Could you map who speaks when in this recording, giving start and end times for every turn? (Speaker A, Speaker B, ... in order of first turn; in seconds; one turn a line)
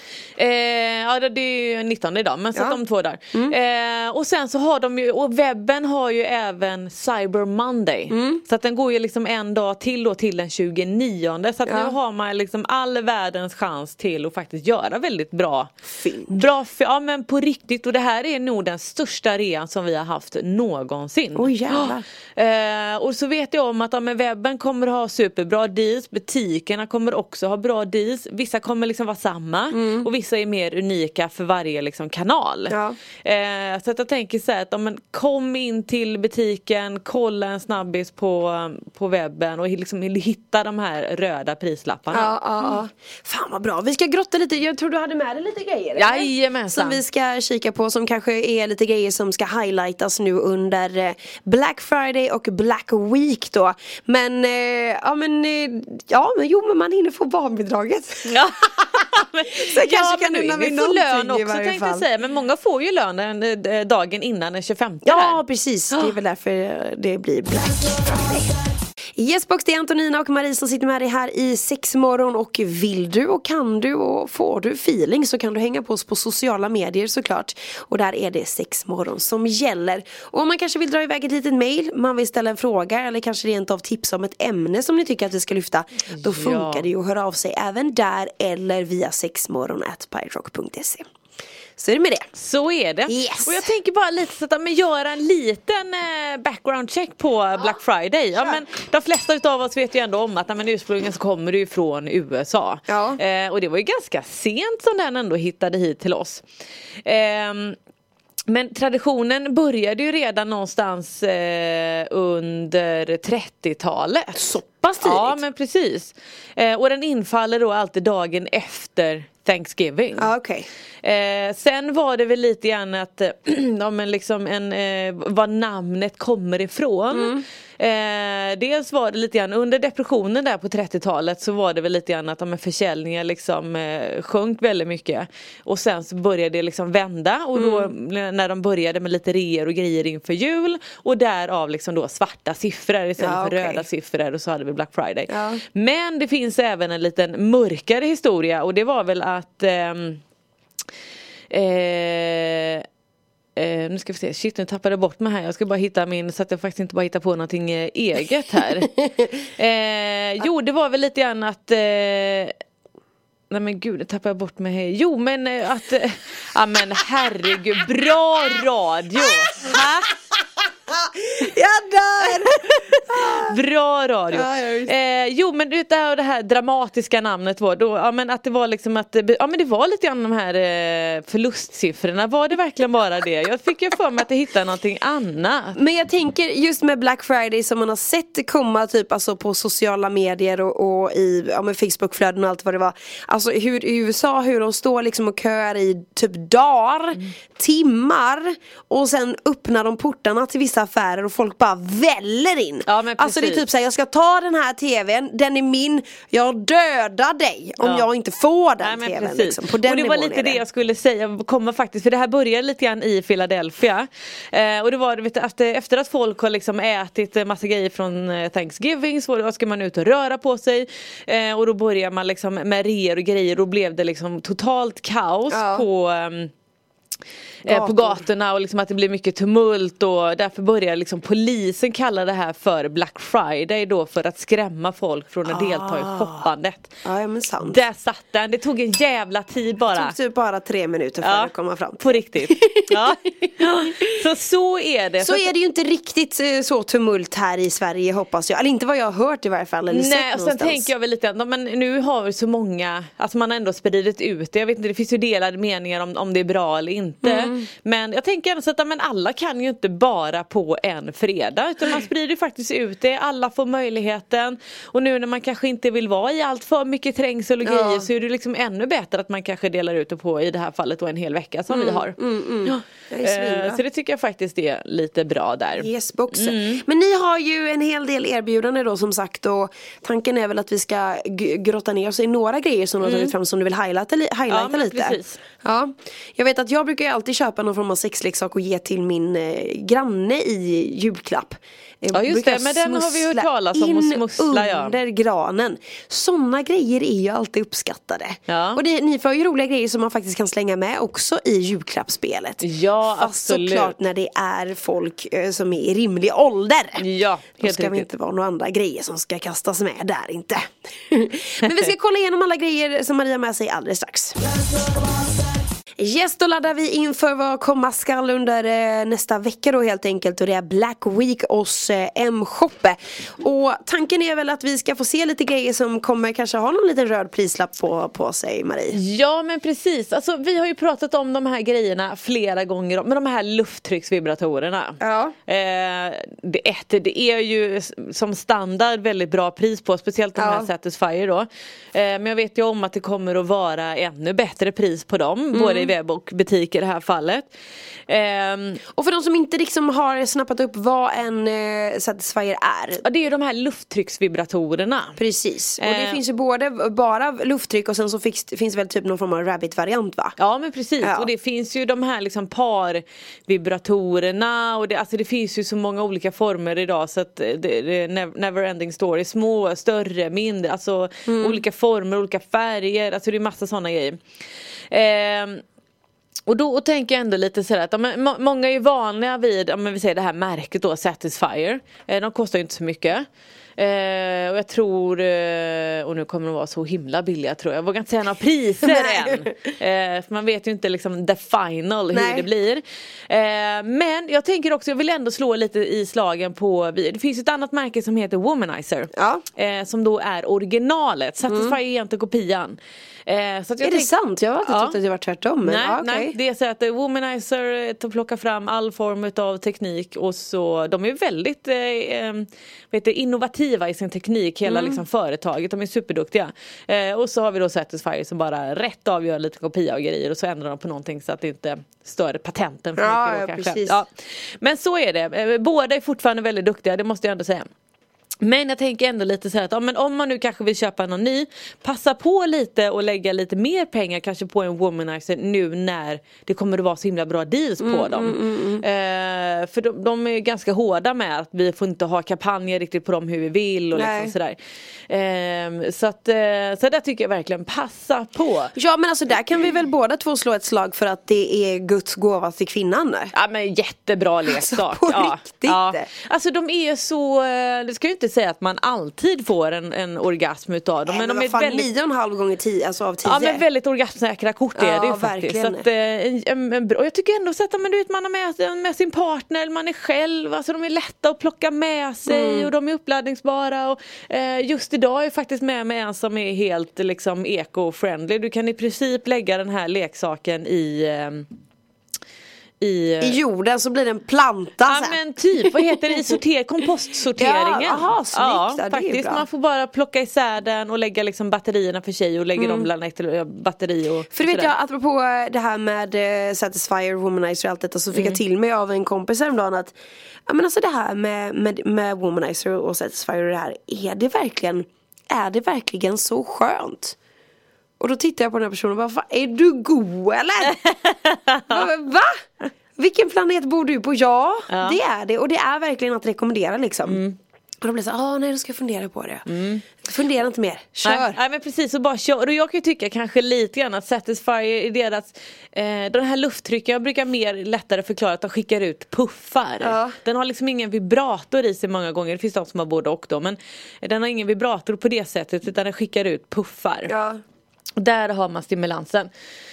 Speaker A: 0.4-15.7
Speaker B: 8.1-8.4
Speaker B: 11.7-11.9
Speaker B: 16.0-16.4
Speaker A: 16.3-42.3
Speaker B: 21.4-22.0
Speaker B: 29.7-30.1
Speaker B: 32.7-33.0
Speaker B: 42.1-58.4
Speaker A: 46.0-47.0
Speaker A: 58.2-65.4
Speaker B: 59.5-62.0
Speaker B: 65.0-68.6
Speaker B: 69.2-91.0
Speaker A: 86.1-86.9
Speaker B: 91.8-92.3
Speaker A: 92.3-106.4
Speaker B: 93.1-93.7
Speaker B: 102.9-103.2
Speaker A: 107.0-107.8
Speaker A: 108.5-114.5
Speaker B: 114.3-115.4
Speaker A: 115.0-120.3
Speaker B: 120.2-120.7
Speaker A: 121.0-150.2
Speaker B: 127.1-127.4
Speaker B: 137.6-137.9
Speaker B: 143.2-143.8
Speaker B: 145.3-145.6
Speaker A: 151.5-152.8
Speaker A: 153.6-162.5
Speaker A: 163.5-170.1
Speaker B: 170.9-173.5
Speaker A: 172.5-185.8
Speaker B: 174.3-174.9
Speaker B: 185.7-210.6
Speaker A: 202.8-203.6
Speaker A: 207.8-208.1
Speaker A: 208.8-226.5
Speaker B: 225.5-225.8
Speaker A: 227.6-236.9
Speaker B: 227.6-228.2
Speaker B: 235.5-236.4
Speaker B: 237.0-237.8
Speaker A: 237.6-240.2
Speaker B: 239.9-243.0
Speaker A: 241.2-245.5
Speaker B: 245.2-250.9
Speaker A: 249.9-276.8
Speaker B: 257.2-257.6
Speaker B: 267.6-268.1
Speaker B: 271.7-273.8
Speaker B: 275.8-307.0
Speaker A: 283.0-283.3
Speaker A: 284.5-285.4
Speaker A: 292.1-295.0
Speaker A: 298.5-298.8
Speaker A: 302.6-303.9
Speaker A: 307.0-308.1
Speaker B: 307.6-314.5
Speaker B: 316.0-329.0
Speaker A: 328.9-347.5
Speaker B: 335.0-335.3
Speaker B: 340.4-340.7
Speaker B: 345.5-345.9
Speaker A: 348.1-348.8
Speaker B: 348.9-353.0
Speaker A: 353.0-355.2
Speaker B: 355.2-360.4
Speaker A: 355.8-356.2
Speaker A: 360.4-374.2
Speaker B: 361.0-361.3
Speaker B: 371.2-371.6
Speaker A: 374.9-375.6
Speaker A: 376.5-404.1
Speaker B: 388.8-389.5
Speaker B: 392.1-392.4
Speaker B: 399.1-399.4
Speaker B: 401.5-401.7
Speaker B: 403.8-406.3
Speaker A: 404.6-404.9
Speaker A: 405.6-427.7
Speaker B: 414.7-415.0
Speaker B: 423.0-424.0
Speaker A: 428.4-444.6
Speaker B: 437.8-438.8
Speaker B: 443.9-444.3
Speaker A: 445.1-448.7
Speaker B: 448.7-453.3
Speaker A: 453.3-461.9
Speaker B: 454.4-456.1
Speaker B: 461.1-463.6
Speaker A: 463.2-481.5
Speaker B: 464.8-465.8
Speaker B: 472.3-472.7
Speaker A: 482.8-483.4
Speaker B: 483.2-485.2
Speaker A: 484.9-494.7
Speaker B: 487.4-489.4
Speaker B: 492.6-492.9
Speaker B: 494.3-499.9
Speaker B: 500.5-507.1
Speaker B: 508.0-510.8
Speaker A: 510.7-511.9
Speaker B: 511.7-517.2
Speaker A: 514.7-515.0
Speaker A: 517.0-517.4
Speaker B: 517.8-519.5
Speaker A: 519.5-519.8
Speaker B: 520.0-521.4
Speaker A: 521.0-537.1
Speaker B: 529.8-530.1
Speaker B: 537.1-537.4
Speaker A: 538.0-539.3